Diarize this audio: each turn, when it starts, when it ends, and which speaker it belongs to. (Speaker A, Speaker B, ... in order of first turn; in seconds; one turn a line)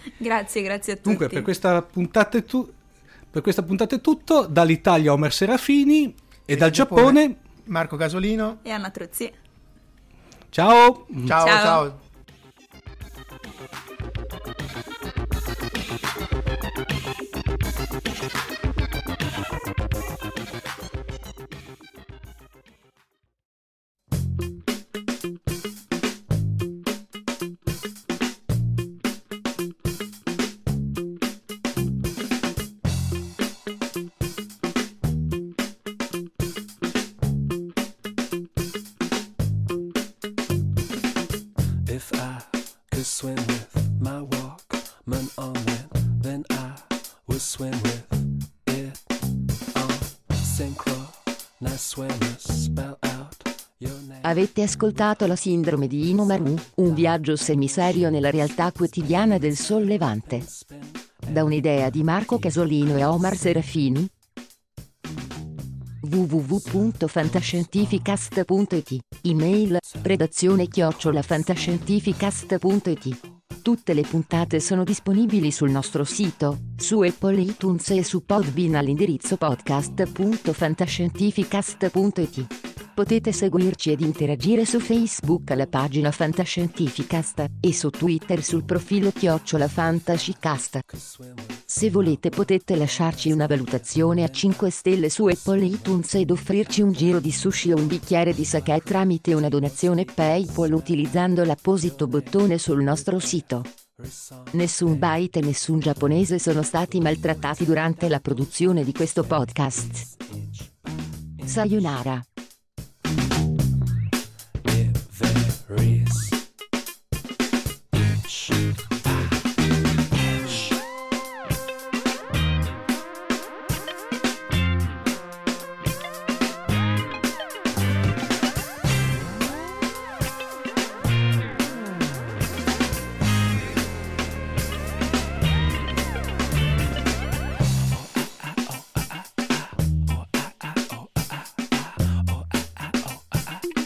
Speaker A: 0.2-1.5
Speaker B: 1.0-2.7
Speaker B: 3.3-7.4
Speaker C: 6.5-8.6
Speaker A: 8.6-9.3
Speaker B: 10.5-11.4
Speaker C: 11.2-12.0
Speaker A: 11.4-11.8
Speaker D: 41.9-63.7
Speaker E: 54.2-60.5
Speaker E: 61.3-64.1
Speaker E: 66.0-90.8
Speaker D: 66.5-68.1
Speaker D: 69.8-71.9
Speaker D: 90.0-112.2
Speaker E: 91.7-103.7
Speaker E: 104.5-110.0
Speaker E: 111.5-112.2
Speaker D: 114.7-116.4
Speaker D: 118.0-119.5
Speaker D: 120.1-120.8